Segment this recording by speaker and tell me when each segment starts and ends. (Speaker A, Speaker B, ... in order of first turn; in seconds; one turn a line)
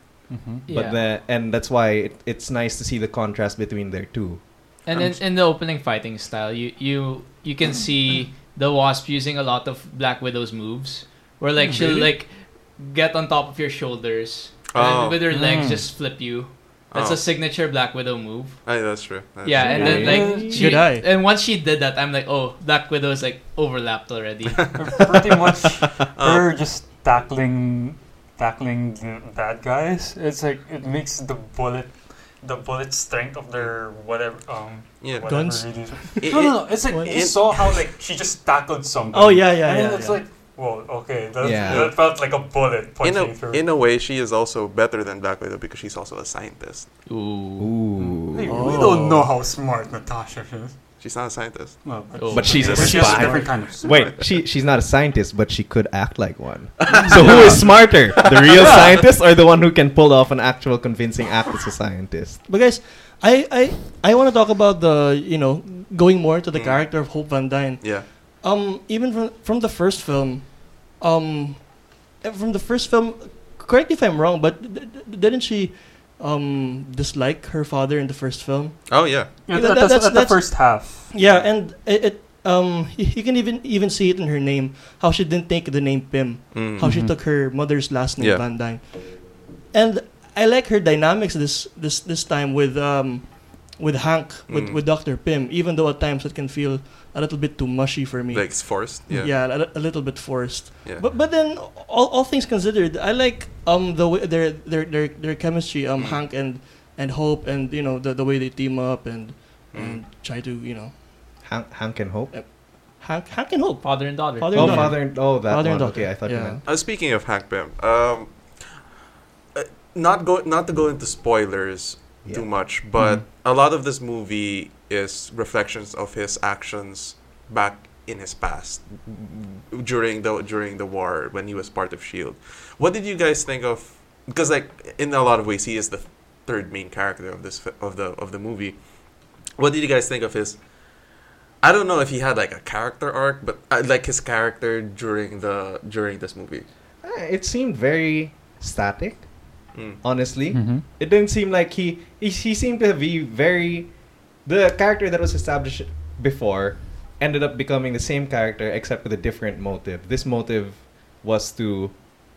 Speaker A: 0.3-0.6
Speaker B: 0.7-1.0
Speaker C: 0.7-5.2
Speaker B: 4.8-18.6
Speaker A: 11.6-12.1
Speaker D: 14.7-15.2
Speaker A: 15.3-15.9
Speaker D: 16.9-17.2
Speaker D: 18.6-19.8
Speaker B: 19.4-24.8
Speaker C: 19.5-20.7
Speaker A: 19.7-20.8
Speaker E: 20.5-21.0
Speaker D: 24.5-24.8
Speaker A: 24.8-43.6
Speaker D: 26.1-26.6
Speaker D: 35.0-37.8
Speaker E: 35.2-37.1
Speaker E: 39.1-40.2
Speaker C: 41.4-41.9
Speaker D: 41.7-42.0
Speaker D: 43.0-46.9
Speaker B: 47.1-47.7
Speaker C: 47.6-48.5
Speaker A: 48.0-50.7
Speaker E: 48.5-49.3
Speaker D: 51.0-51.9
Speaker A: 51.8-54.1
Speaker B: 52.1-52.6
Speaker C: 52.3-62.4
Speaker D: 52.5-54.2
Speaker E: 52.7-53.6
Speaker D: 56.9-57.5
Speaker A: 57.1-57.6
Speaker D: 58.2-58.8
Speaker A: 58.5-59.0
Speaker E: 62.5-111.0
Speaker D: 66.5-68.1
Speaker D: 78.8-79.5
Speaker A: 79.5-81.1
Speaker D: 81.2-81.5
Speaker D: 86.5-86.9
Speaker A: 86.8-87.1
Speaker D: 88.2-88.5
Speaker D: 94.5-94.9
Speaker D: 98.3-99.3
Speaker D: 100.8-101.1
Speaker D: 106.0-106.3
Speaker D: 109.7-110.0
Speaker C: 111.4-112.5
Speaker E: 112.3-116.6
Speaker B: 113.8-114.9
Speaker C: 114.5-116.6
Speaker D: 116.6-118.7
Speaker D: 119.5-138.8
Speaker C: 122.2-123.2
Speaker D: 139.6-140.6
Speaker D: 141.6-146.7
Speaker C: 147.0-149.3
Speaker D: 149.7-150.0
Speaker C: 150.0-161.9
Speaker A: 150.5-150.8